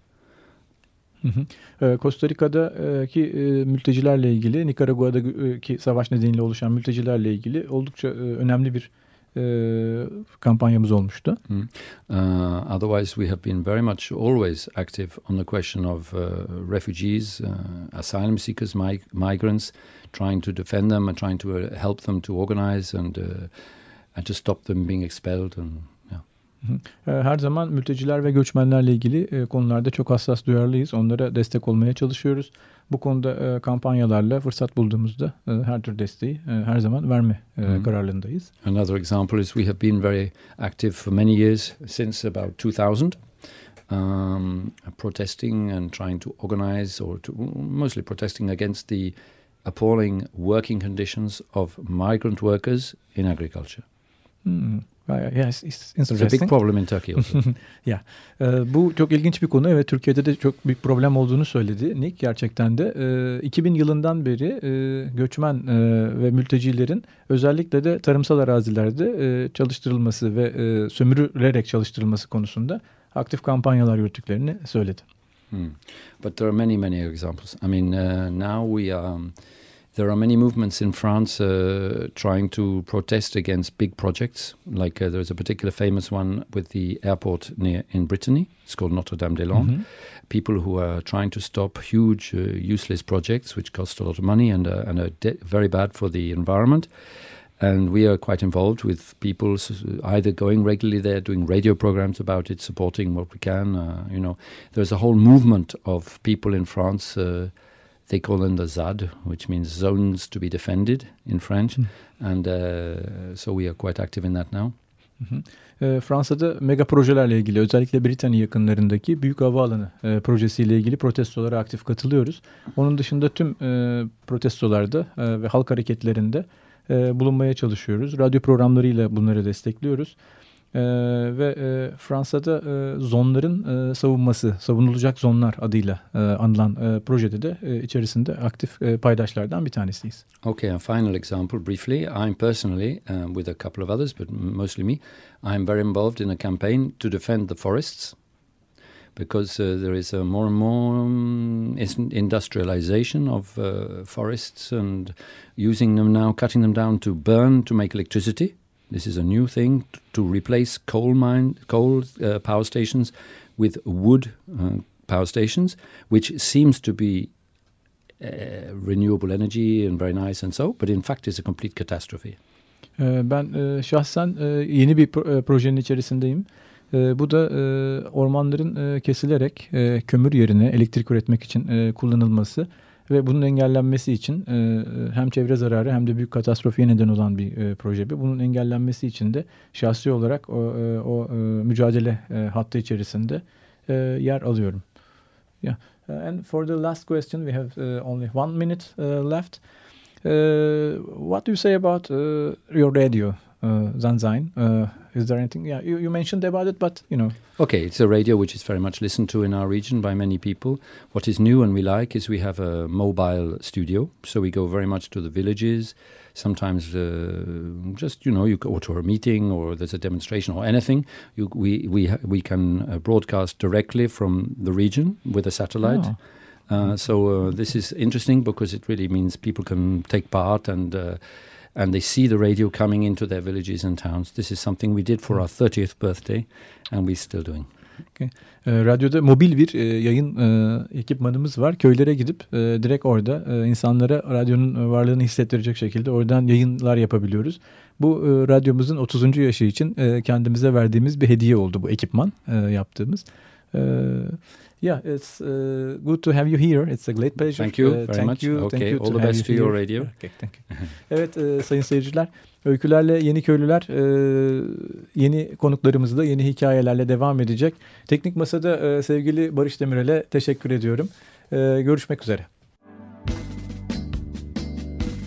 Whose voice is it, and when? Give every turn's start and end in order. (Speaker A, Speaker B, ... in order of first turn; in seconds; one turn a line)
Speaker A: 1.2-11.4
Speaker B: 11.5-23.5
Speaker B: 24.1-26.2
Speaker A: 26.6-38.5
Speaker B: 38.6-43.2
Speaker B: 43.9-53.9
Speaker A: 54.4-56.5
Speaker B: 56.1-57.4
Speaker A: 57.2-75.1
Speaker B: 75.5-79.4
Speaker B: 79.9-96.9
Speaker A: 89.5-89.8
Speaker B: 97.6-107.5
Speaker B: 108.1-114.8
Speaker A: 115.2-130.2
Speaker A: 130.7-140.2
Speaker B: 140.4-148.2
Speaker B: 149.2-167.3
Speaker B: 168.2-172.4
Speaker A: 173.0-194.8
Speaker A: 195.6-199.6
Speaker A: 200.2-207.4
Speaker B: 207.6-226.2
Speaker A: 225.8-226.2
Speaker B: 226.7-231.2
Speaker B: 231.7-237.7
Speaker A: 238.2-272.5
Speaker B: 257.6-260.1